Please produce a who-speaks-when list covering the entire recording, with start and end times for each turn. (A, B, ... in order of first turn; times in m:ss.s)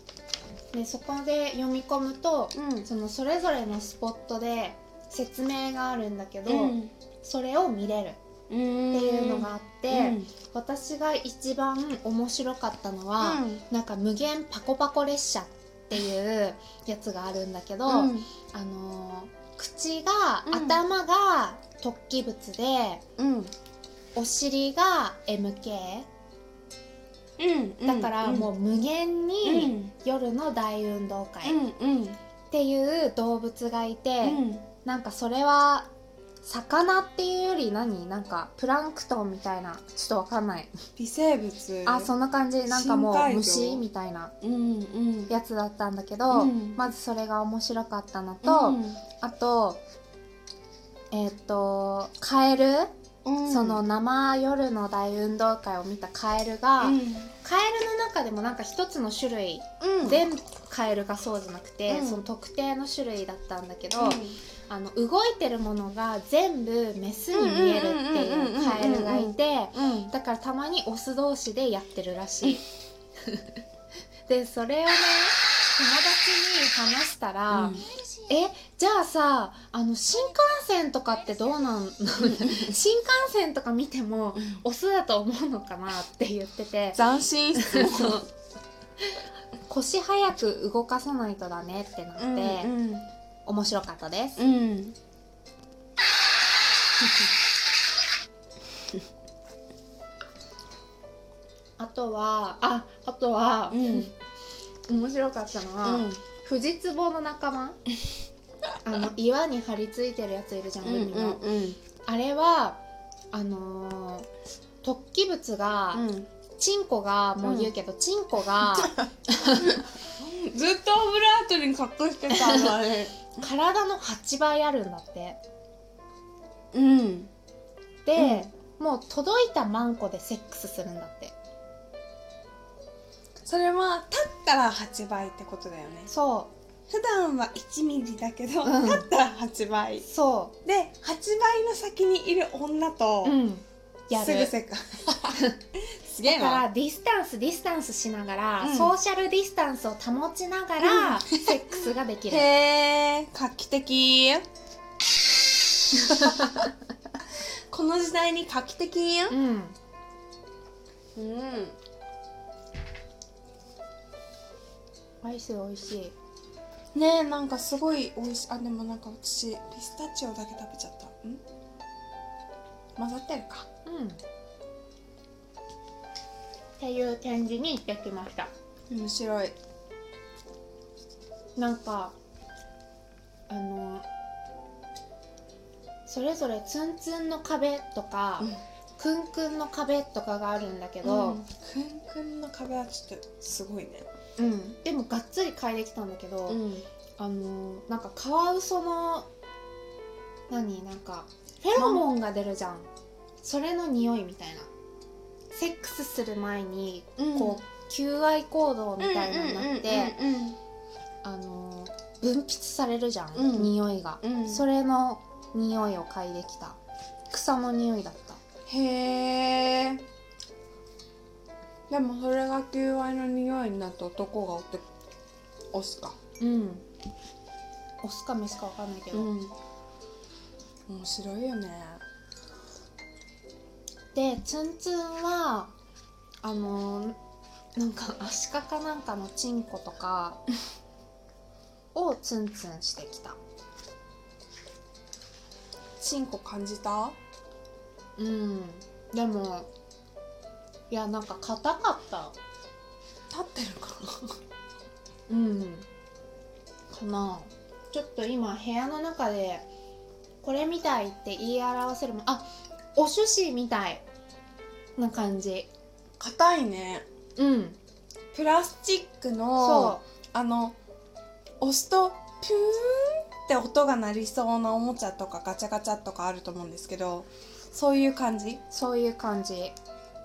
0:00.7-0:08.2 A
0:02.5-0:02.9 B
0:06.5-0:06.9 B
0:08.5-0:10.3 B
0:08.9-0:23.0 A
0:13.2-0:13.6 B
0:17.9-0:18.3 B
0:20.4-0:20.8 B
0:23.2-0:23.5 B
0:24.1-0:26.1 A
0:27.4-0:28.5 B
0:27.8-0:31.6 A
0:29.4-0:29.9 B
0:31.4-0:32.2 B
0:32.5-0:35.9 A
0:34.2-0:34.6 B
0:36.4-0:40.7 A
0:41.0-0:42.1 B
0:41.8-0:44.3 A
0:42.7-0:43.8 B
0:44.4-0:45.3 B
0:45.3-0:49.8 A
0:46.3-0:46.8 B
0:48.4-0:49.0 B
0:51.1-0:52.9 A
0:53.2-0:53.8 B
0:53.5-1:12.6 A
0:56.8-0:57.3 B
0:59.8-1:00.3 B
1:01.9-1:02.2 B
1:03.9-1:04.4 B
1:07.3-1:10.1 B
1:13.2-1:13.5 A
1:14.3-1:27.0 A
1:17.5-1:17.8 B
1:22.3-1:22.7 B
1:26.9-1:28.2 B
1:27.5-1:28.3 A
1:29.7-1:32.7 A
1:32.2-1:33.1 B
1:33.4-1:34.4 A
1:34.4-1:35.0 B
1:41.8-1:44.1 A
1:43.7-1:44.1 B
1:44.9-1:47.8 A
1:45.8-1:46.2 B
1:48.8-1:51.4 A
1:50.8-1:51.8 B
1:52.0-1:52.8 A
1:53.3-1:54.3 A
1:54.8-1:56.0 A
1:55.9-1:56.3 B
1:56.6-1:59.8 A
1:57.4-1:57.7 B
2:00.2-2:03.3 B
2:02.3-2:02.7 A
2:03.4-2:05.4 A
2:06.7-2:07.3 B
2:08.0-2:11.3 A
2:08.2-2:08.5 B
2:13.4-2:16.1 B
2:16.1-2:16.5 A
2:16.9-2:20.1 B
2:18.6-2:19.1 A
2:20.0-2:20.6 A
2:20.6-2:23.4 B
2:23.2-2:24.5 A
2:24.1-2:26.6 B
2:25.2-2:25.6 A
2:26.2-2:32.5 A
2:28.6-2:28.9 B
2:30.8-2:31.6 B
2:32.3-2:34.4 B
2:36.0-2:36.6 B
2:37.7-2:39.3 B
2:39.3-2:39.8 A
2:41.2-2:41.8 B
2:45.2-2:46.1 A
2:46.9-2:51.4 B
2:53.0-2:53.6 B
2:53.8-2:54.2 A
2:56.8-2:58.5 A
2:58.9-2:59.6 B
3:01.6-3:02.1 A
3:03.5-3:04.0 A
3:06.0-3:11.4 A
3:11.0-3:14.1 B
3:14.4-3:16.6 A
3:16.5-3:16.8 B
3:17.2-3:19.3 A
3:20.5-3:22.9 A
3:21.7-3:22.1 B
3:23.4-3:24.7 A
3:25.5-3:30.2 A
3:27.2-3:27.6 B
3:29.0-3:30.6 B
3:31.2-3:36.8 A
3:33.3-3:34.6 B
3:37.3-3:38.4 A
3:38.7-3:40.0 B
3:41.9-3:44.8 B
3:45.7-3:46.2 B
3:46.4-3:46.8 A
3:48.0-3:49.3 A
3:49.1-3:49.5 B
3:50.9-3:52.0 B
3:54.1-3:55.7 A
3:56.4-3:57.2 A
3:57.8-4:00.4 A
4:01.9-4:03.4 A
4:06.0-4:07.2 B
4:08.2-4:09.7 A
4:10.9-4:12.4 A
4:13.3-4:14.4 B
4:15.3-4:15.9 A
4:16.9-4:19.6 A
4:20.4-4:24.0 A
4:25.0-4:25.7 A
4:26.2-4:27.0 B
4:27.4-4:27.8 A
4:28.3-4:30.8 B
4:29.6-4:30.0 A
4:31.6-4:38.6 B
4:38.7-4:39.7 A